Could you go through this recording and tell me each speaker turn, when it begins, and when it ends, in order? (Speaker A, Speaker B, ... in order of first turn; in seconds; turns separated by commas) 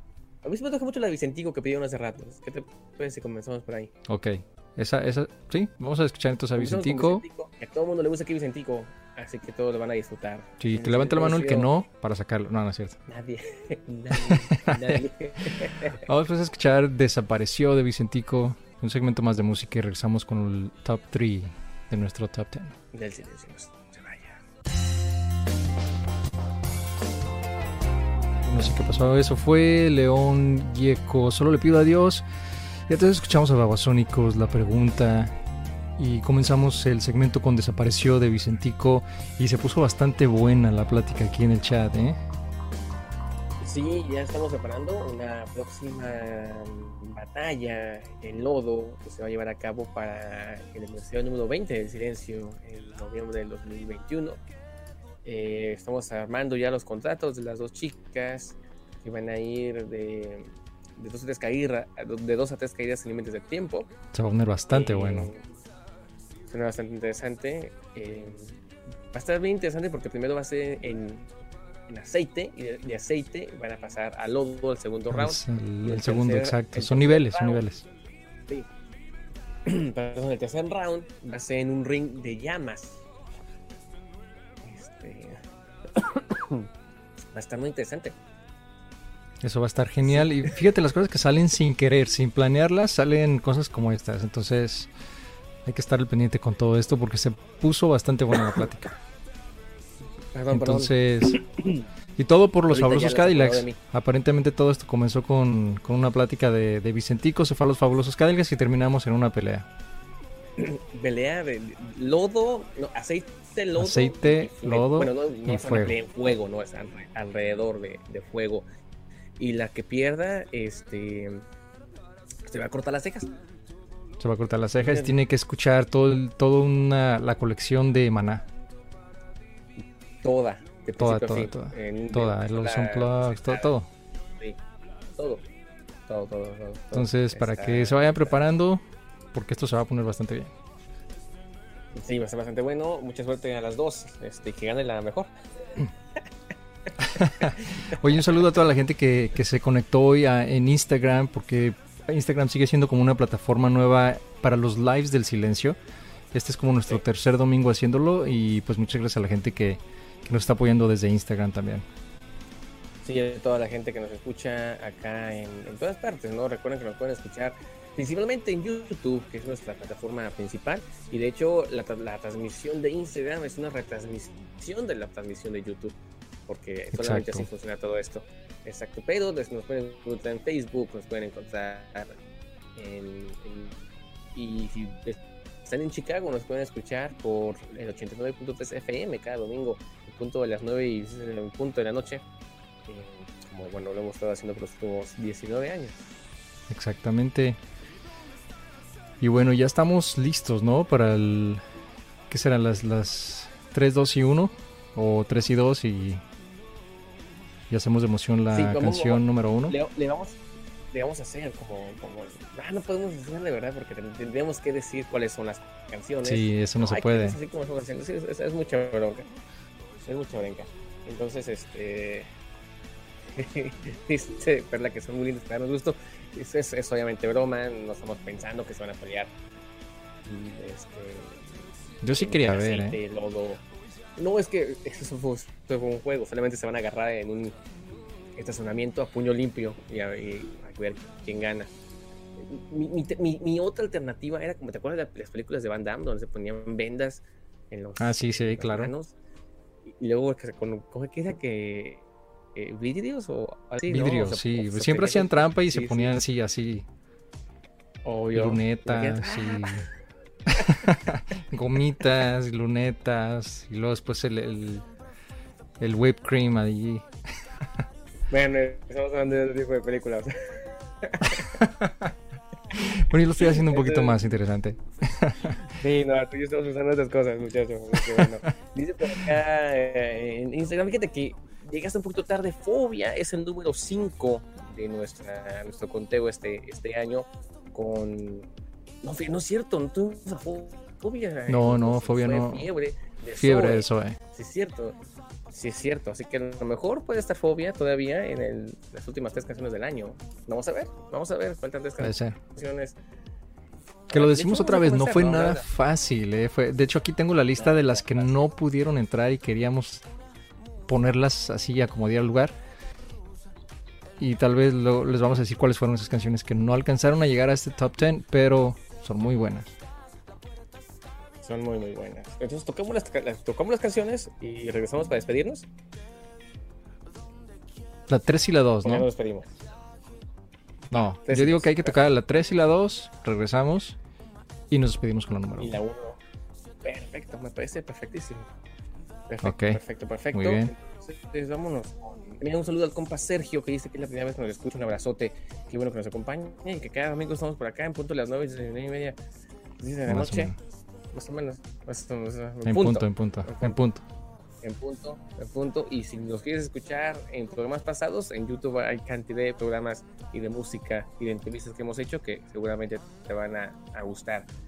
Speaker A: 0.4-3.9, Speaker B: 4.0-7.2, Speaker A: 6.5-11.7, Speaker B: 10.6-13.0, Speaker A: 13.1-16.0, Speaker B: 14.1-15.0, Speaker B: 16.0-22.7, Speaker A: 22.9-24.4, Speaker B: 28.4-32.2, Speaker B: 32.9-35.3, Speaker B: 36.0-42.2, Speaker A: 43.6-54.4, Speaker A: 55.2-63.9, Speaker B: 64.1-65.3, Speaker A: 64.7-65.4, Speaker A: 66.5-68.6, Speaker A: 69.1-71.3, Speaker A: 71.9-77.6, Speaker B: 75.1-77.8, Speaker A: 79.7-83.0, Speaker A: 84.6-85.4, Speaker A: 85.9-86.7, Speaker A: 87.3-88.1, Speaker B: 89.4-94.9, Speaker A: 90.0-90.6, Speaker B: 95.6-98.9, Speaker A: 100.3-101.8, Speaker B: 100.5-101.4, Speaker B: 102.2-109.7, Speaker A: 102.7-103.8, Speaker A: 110.6-118.7, Speaker B: 113.8-116.0, Speaker A: 119.4-121.5, Speaker A: 122.5-123.3, Speaker B: 124.2-128.4, Speaker A: 124.8-125.2, Speaker A: 130.2-133.7, Speaker B: 131.0-133.9, Speaker A: 135.2-135.4, Speaker A: 136.1-138.4, Speaker B: 136.9-138.8, Speaker B: 139.3-140.5, Speaker A: 141.9-145.3, Speaker B: 147.0-155.8, Speaker A: 147.2-147.9, Speaker B: 156.3-161.8, Speaker A: 163.0-175.9, Speaker A: 176.5-182.2, Speaker B: 176.9-177.5, Speaker A: 182.8-183.8, Speaker A: 184.3-192.2, Speaker A: 192.9-196.0, Speaker B: 196.7-197.6, Speaker B: 199.2-201.6, Speaker B: 202.3-206.2, Speaker B: 207.7-209.8, Speaker A: 208.5-210.4, Speaker A: 210.9-219.3, Speaker B: 216.2-217.4, Speaker A: 220.0-222.3, Speaker A: 223.3-229.3, Speaker A: 230.2-231.5, Speaker B: 232.0-233.0, Speaker A: 232.2-233.6, Speaker A: 234.2-237.5, Speaker A: 238.3-241.7, Speaker A: 242.3-249.1, Speaker B: 248.0-248.9, Speaker A: 249.9-256.2, Speaker B: 253.9-256.9, Speaker A: 258.0-259.9, Speaker B: 258.3-259.9, Speaker B: 260.5-264.9, Speaker B: 265.8-267.1, Speaker A: 268.3-271.6, Speaker B: 271.4-272.1, Speaker B: 272.7-275.6, Speaker A: 273.3-274.2, Speaker A: 275.7-288.5, Speaker B: 278.0-278.3, Speaker A: 289.0-295.0, Speaker B: 291.5-292.7, Speaker B: 293.3-294.2, Speaker A: 295.5-302.9, Speaker B: 302.0-302.4, Speaker A: 304.1-305.6, Speaker B: 304.1-310.0, Speaker A: 307.6-308.3, Speaker B: 310.9-312.5, Speaker B: 314.2-319.7, Speaker A: 321.4-325.6, Speaker B: 328.1-329.1, Speaker A: 328.8-329.5, Speaker B: 330.9-334.0, Speaker A: 330.9-332.0, Speaker B: 334.7-335.8, Speaker A: 335.6-336.2, Speaker A: 336.8-338.5, Speaker A: 339.3-349.2, Speaker B: 339.4-339.8, Speaker B: 340.3-340.7, Speaker A: 349.8-350.6, Speaker B: 350.1-350.6, Speaker A: 351.1-353.8, Speaker B: 352.6-354.0, Speaker A: 354.6-364.5